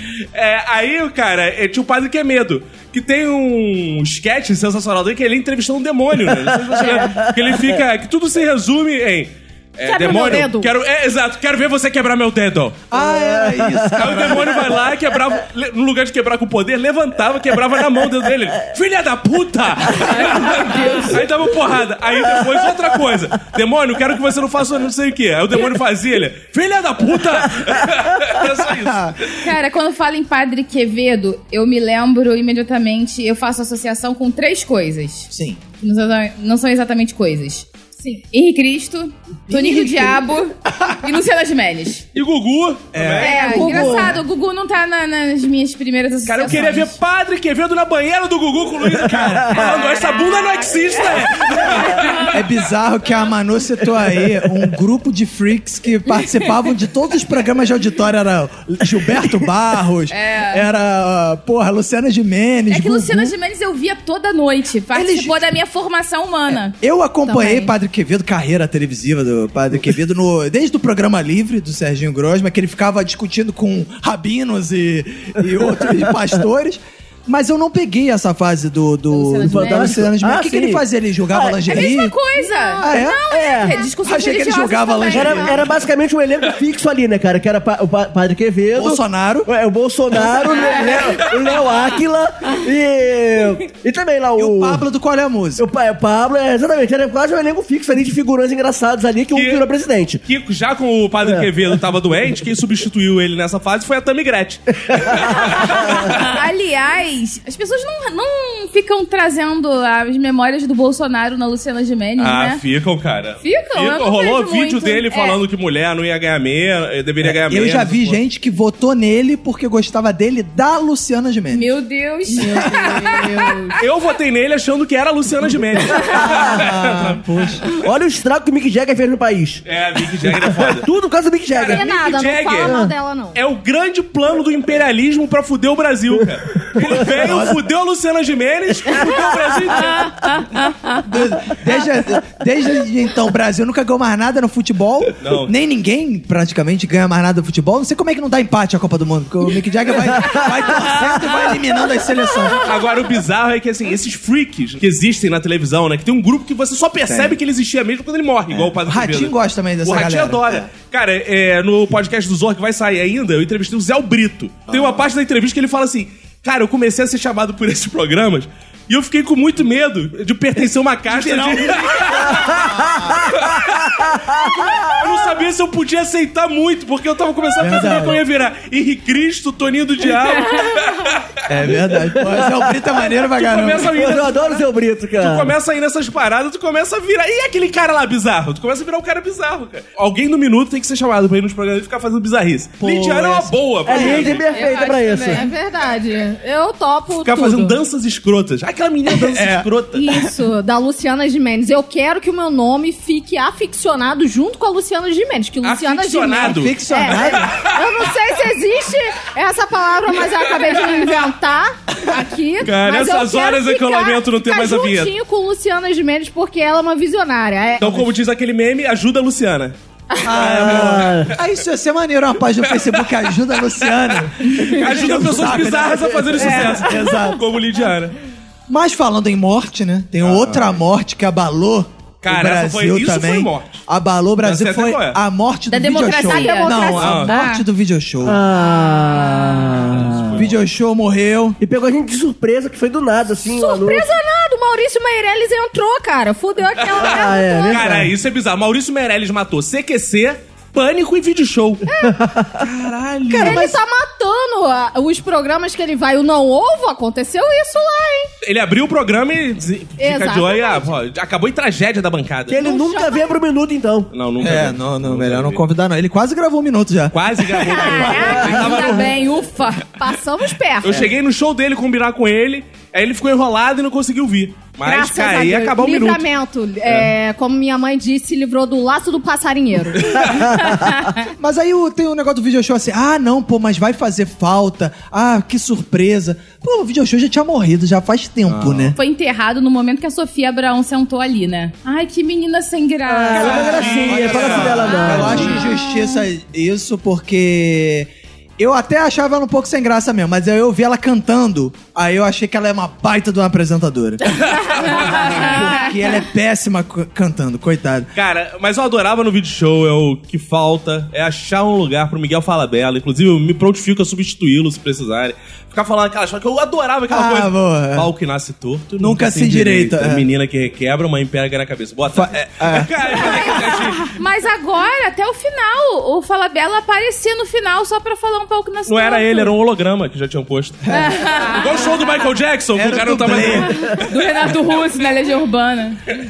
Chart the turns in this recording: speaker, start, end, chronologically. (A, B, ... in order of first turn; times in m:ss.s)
0:00.4-0:12.8 A
0:06.3-0:07.6 B
0:09.8-0:10.7 C
0:12.9-0:14.6 D
0:13.1-0:13.9 B
0:13.9-0:29.3 A
0:20.0-0:21.2 E
0:28.7-0:29.2 D
0:29.4-0:42.1 E
0:35.3-0:35.6 D
0:39.5-0:40.2 D
0:42.1-0:43.8 A
0:42.9-0:44.2 D
0:43.2-0:47.0 E
0:43.2-0:44.2 C
0:46.3-0:52.3 A
0:49.0-0:49.7 D
0:52.3-1:03.4 D
1:00.1-1:00.6 E
1:02.7-1:06.8 E
1:04.9-1:05.4 D
1:06.5-1:22.2 D
1:07.3-1:07.7 C
1:19.1-1:20.0 E
1:19.4-1:21.8 B
1:21.7-1:25.5 E
1:22.4-1:23.9 C
1:22.8-1:23.2 D
1:23.3-1:23.8 B
1:24.0-1:25.6 D
1:25.1-1:34.8 B
1:28.8-1:29.5 D
1:30.5-1:31.2 E
1:34.4-1:35.7 D
1:35.6-1:40.2 B
1:39.3-1:39.6 A
1:40.2-1:46.2 A
1:44.9-1:46.0 B
1:45.9-1:52.6 E
1:52.2-1:58.2 A
1:53.4-1:55.4 E
1:57.4-2:01.7 D
2:01.5-2:03.8 E
2:02.4-2:03.8 C
2:02.4-2:03.0 D
2:03.8-2:07.2 A
2:05.9-2:06.7 B
2:06.2-2:07.7 D
2:07.7-2:09.6 B
2:09.7-2:10.9 A
2:10.2-2:11.9 B
2:11.5-2:12.8 A
2:11.7-2:13.4 C
2:12.6-2:12.9 B
2:13.3-2:20.3 A
2:17.1-2:17.6 D
2:18.9-2:19.2 B
2:21.0-2:32.7 D
2:25.2-2:25.5 A
2:32.6-2:52.7 A
2:37.1-2:37.4 D
2:38.5-2:40.7 D
2:44.7-2:45.1 D
2:51.1-2:53.5 D
2:52.4-2:55.0 B
2:53.3-3:01.4 A
2:57.6-2:58.2 D
3:01.5-3:04.2 D
3:02.2-3:02.7 B
3:03.3-3:04.6 A
3:03.8-3:05.5 B
3:05.2-3:14.5 A
3:12.8-3:14.4 D
3:13.8-3:15.5 B
3:14.5-3:15.5 E
3:14.6-3:17.8 C
3:17.1-3:20.1 A
3:19.2-3:20.3 D
3:19.9-3:38.1 C
3:25.6-3:27.8 A
3:26.4-3:27.6 D
3:32.6-3:35.1 A
3:37.8-3:39.8 A
3:40.1-3:40.4 C
3:40.2-3:47.4 D
3:40.4-3:41.3 B
3:42.6-3:43.3 A
3:43.8-3:48.2 A
3:46.4-3:47.1 C
3:48.7-3:58.4 D
3:50.2-3:50.8 A
3:52.2-3:53.8 A
3:54.4-3:55.2 A
3:55.7-3:57.6 E
3:55.9-3:57.4 C
3:57.0-3:57.3 A
3:58.2-4:00.4 B
3:59.9-4:00.6 A
4:00.3-4:01.6 D
4:01.6-4:04.2 B
4:03.5-4:08.1 C
4:06.8-4:11.9 A
4:07.0-4:08.1 B
4:11.9-4:12.2 C
4:12.0-4:12.6 B
4:12.6-4:13.7 A
4:13.3-4:18.3 C
4:13.4-4:13.7 D
4:18.4-4:22.6 A
4:20.0-4:21.0 C
4:22.5-4:24.1 B
4:22.5-4:23.4 C
4:24.1-4:25.6 A
4:24.4-4:28.0 D
4:27.1-4:29.2 A
4:27.5-4:29.2 C
4:27.9-4:29.9 E
4:28.4-4:28.8 B
4:30.0-4:31.1 C
4:30.8-4:36.3 A
4:34.8-4:40.8 C
4:36.8-4:37.1 A
4:40.2-4:40.9 B
4:41.3-4:49.0 D
4:48.5-4:49.0 A
4:49.0-4:54.1 E
4:53.1-4:55.6 B
4:53.3-5:08.1 D
4:53.4-4:55.4 A
4:54.8-4:56.2 E
5:04.3-5:05.6 A
5:05.1-5:05.9 E
5:08.2-5:24.1 A
5:17.1-5:18.1 D
5:19.0-5:20.3 D
5:22.1-5:23.8 D
5:24.1-5:29.5 E
5:28.9-5:34.1 A
5:30.9-5:31.2 D
5:30.9-5:32.0 E
5:32.8-5:34.0 D
5:33.8-5:36.0 E